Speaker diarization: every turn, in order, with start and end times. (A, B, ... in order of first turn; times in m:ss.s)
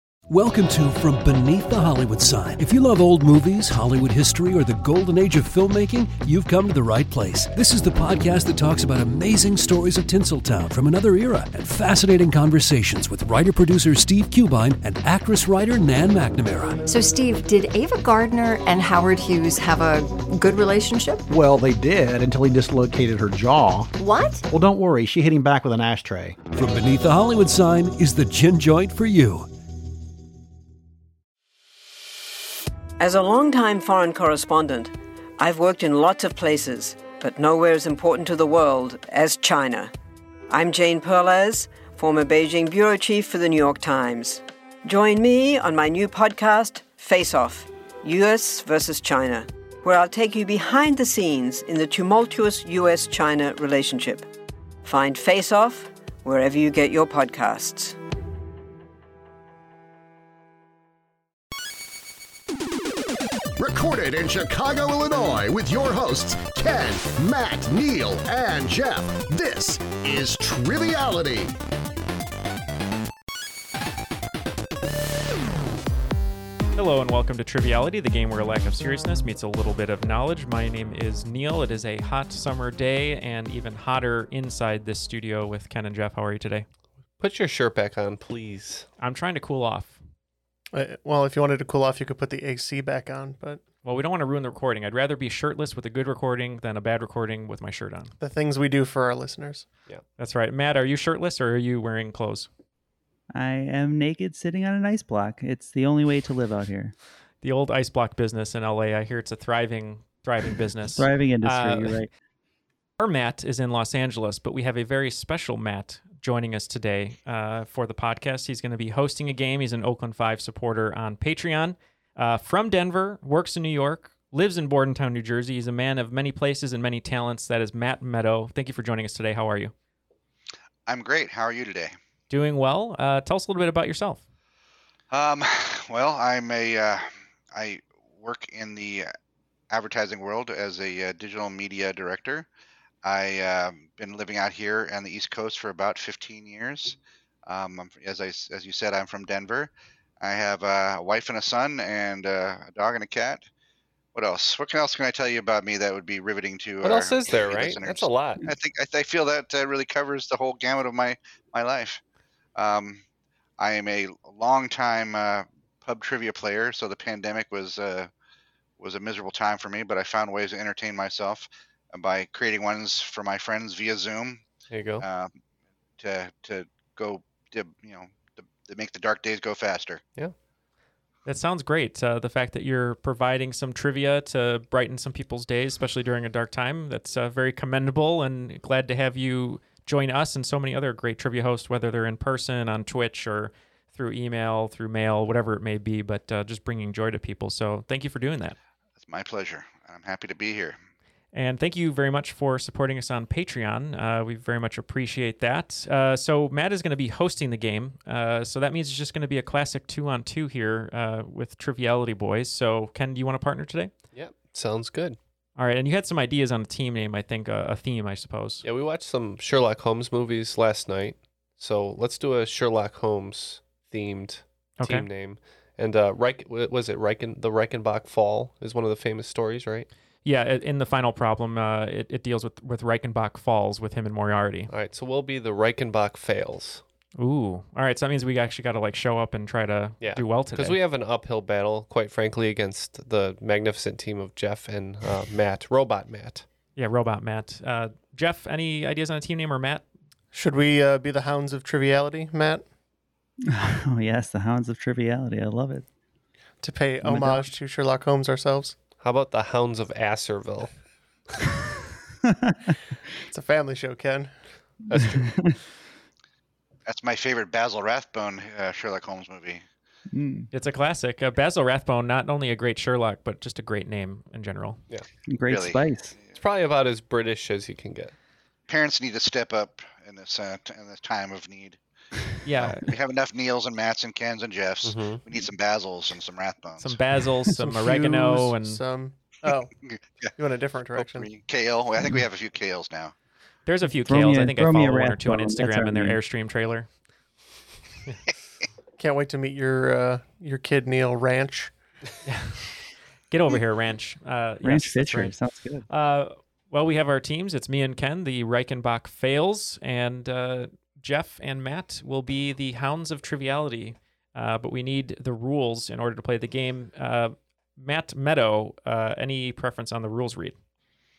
0:00.3-0:16.8 A
0:16.9-0:21.2 B
0:21.3-0:23.9 C
0:24.0-0:24.5 B
0:24.5-0:26.4 C
0:26.5-0:29.5 A
0:33.0-0:39.9 D
0:40.5-0:54.3 D
0:54.8-0:58.0 D
1:03.6-1:11.6 E
1:16.8-1:26.7 F
1:27.2-1:28.9 G
1:29.0-1:30.0 F
1:30.7-1:33.6 H
1:33.8-1:38.1 F
1:38.2-1:39.7 H
1:40.2-1:42.5 F
1:43.3-1:46.9 I
1:47.4-1:52.0 F
1:51.0-1:52.1 I
1:53.0-2:09.7 F
2:10.9-2:11.9 J
2:12.3-2:14.2 F
2:15.1-2:19.1 J
2:19.7-2:22.5 J
2:23.0-2:33.4 J
2:34.2-2:42.0 J
2:36.8-2:38.4 G
2:42.6-2:43.0 J
2:43.6-2:48.1 J
2:48.8-2:54.4 J
2:54.7-2:55.1 G
2:55.0-2:55.3 J
2:56.0-3:00.0 J
3:01.3-3:18.6 F
3:19.0-3:20.8 J
3:21.3-3:33.9 F
3:34.1-3:35.2 G
3:35.6-3:38.6 F
3:38.6-3:49.9 G
3:44.8-3:45.1 F
3:50.2-3:54.7 F
3:54.7-3:56.8 G
3:57.2-4:00.8 F
4:00.0-4:06.4 G
4:06.8-4:09.8 F
4:10.3-4:12.6 H
4:13.5-4:15.9 I
4:16.6-4:18.7 H
4:17.0-4:17.5 I
4:19.0-4:20.7 G
4:22.2-4:22.8 I
4:23.3-4:24.3 H
4:24.9-4:25.4 G
4:25.0-4:25.6 I
4:26.9-4:29.6 J
4:30.1-4:30.5 I
4:30.5-4:34.8 F
4:35.3-4:36.2 I
4:35.5-4:36.3 J
4:36.4-4:38.1 G
4:38.7-4:41.8 J
4:42.4-4:42.9 F
4:42.6-4:47.0 J
4:44.8-4:45.2 G
4:46.8-4:48.8 F
4:47.8-4:49.7 H
4:49.8-4:50.3 J
4:50.4-4:51.3 H
4:51.0-4:53.1 J
4:53.7-4:56.9 F
4:53.8-4:56.2 I
4:59.0-5:01.7 H
5:02.3-5:02.7 F
5:03.3-5:05.4 F
5:04.6-5:05.9 I
5:05.9-5:20.6 F